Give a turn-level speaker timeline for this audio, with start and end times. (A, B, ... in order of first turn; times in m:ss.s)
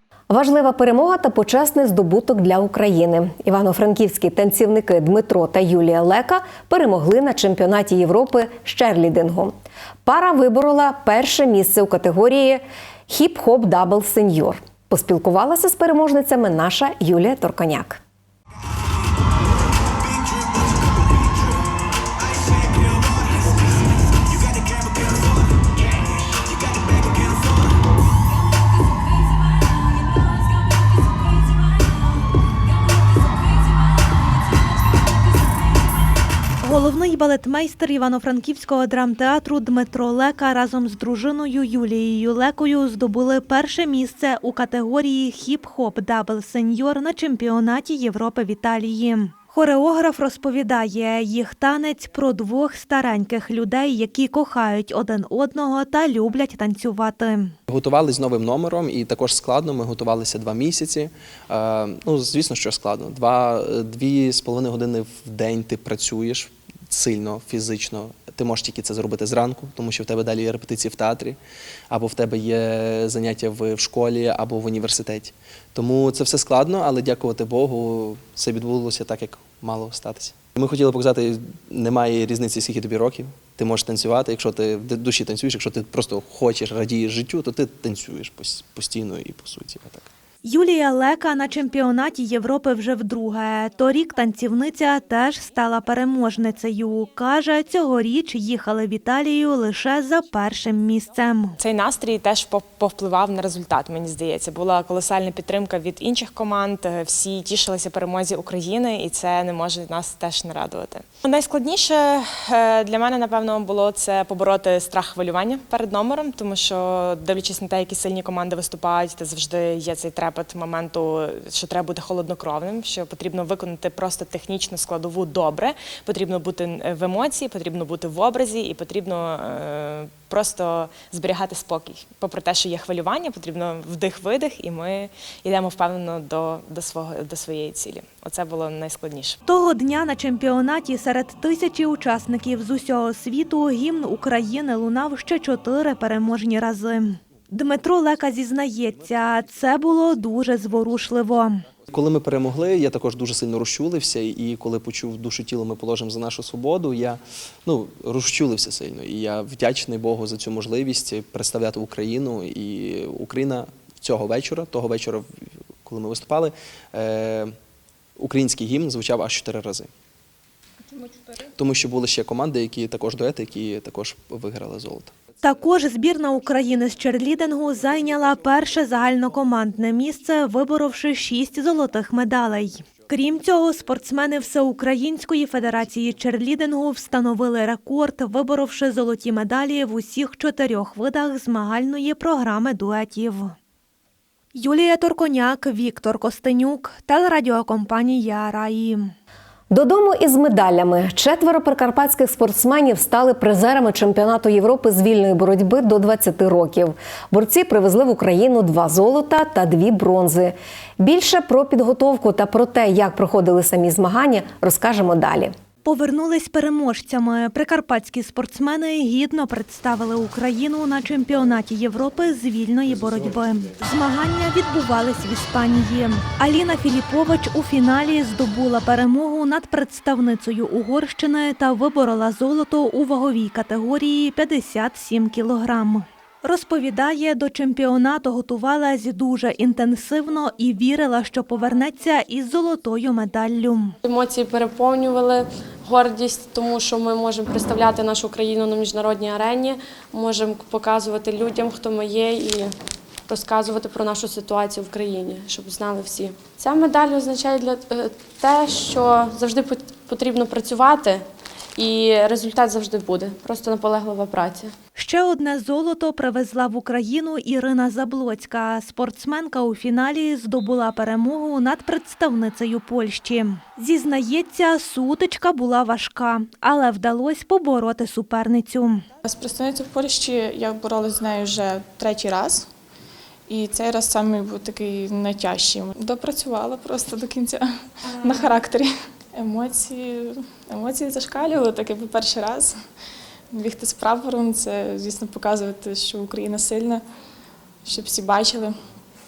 0:00.3-0:18.0 A
0:36.6-0:57.5 B
0:57.7-1:11.4 C
1:11.9-1:30.1 C
1:30.4-1:41.6 B
1:41.6-2:19.4 D
2:19.4-2:31.6 B
2:31.9-2:45.3 C
2:45.8-2:47.6 C
2:48.2-2:49.9 C
2:51.6-2:55.2 C
2:55.4-3:13.5 B
3:14.6-3:19.1 B
3:19.7-3:35.6 A
3:35.8-4:04.0 B
4:04.0-4:12.7 E
4:13.3-4:24.7 E
4:25.0-4:39.0 B
4:39.2-4:42.7 F
4:43.5-4:52.8 F
4:53.5-4:57.0 F
4:57.8-4:58.8 F